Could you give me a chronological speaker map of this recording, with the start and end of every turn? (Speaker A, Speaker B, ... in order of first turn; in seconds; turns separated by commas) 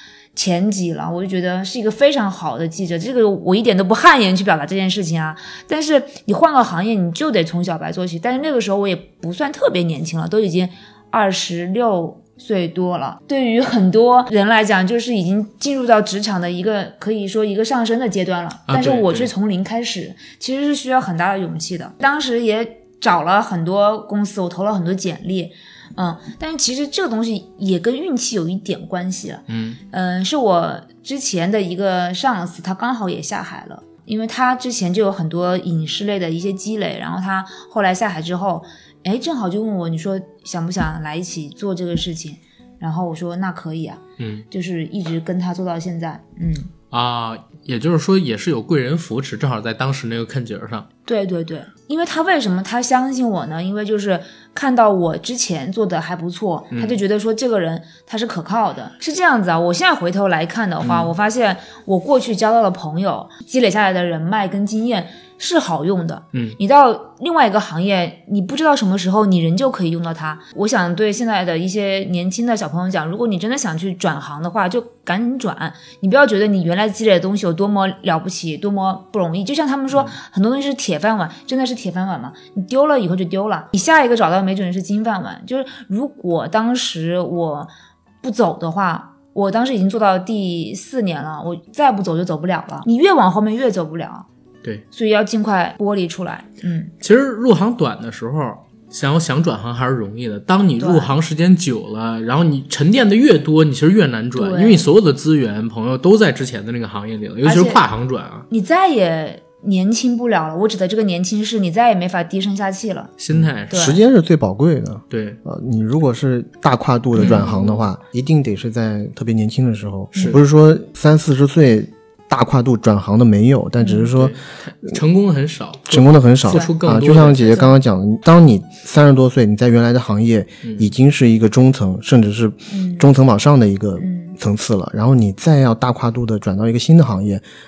Speaker A: 0.3-46.7, Speaker B: 18.7-19.3, Speaker B: 29.5-29.8, Speaker B: 44.2-44.4, Speaker B: 46.9-50.9, Speaker A: 51.0-87.7, Speaker B: 56.7-57.0, Speaker B: 60.8-61.1, Speaker A: 88.2-94.2, Speaker A: 94.9-96.9, Speaker B: 97.0-108.5, Speaker A: 100.8-101.1, Speaker A: 104.3-104.8, Speaker A: 107.4-107.8, Speaker A: 108.5-113.1, Speaker B: 113.2-113.9, Speaker C: 113.3-124.3, Speaker A: 113.7-114.0, Speaker B: 115.1-115.4, Speaker B: 117.2-117.8, Speaker A: 123.8-124.1, Speaker B: 124.1-127.7, Speaker C: 125.9-137.4, Speaker A: 127.5-127.7, Speaker B: 130.6-130.9, Speaker A: 132.7-133.1, Speaker A: 134.0-134.3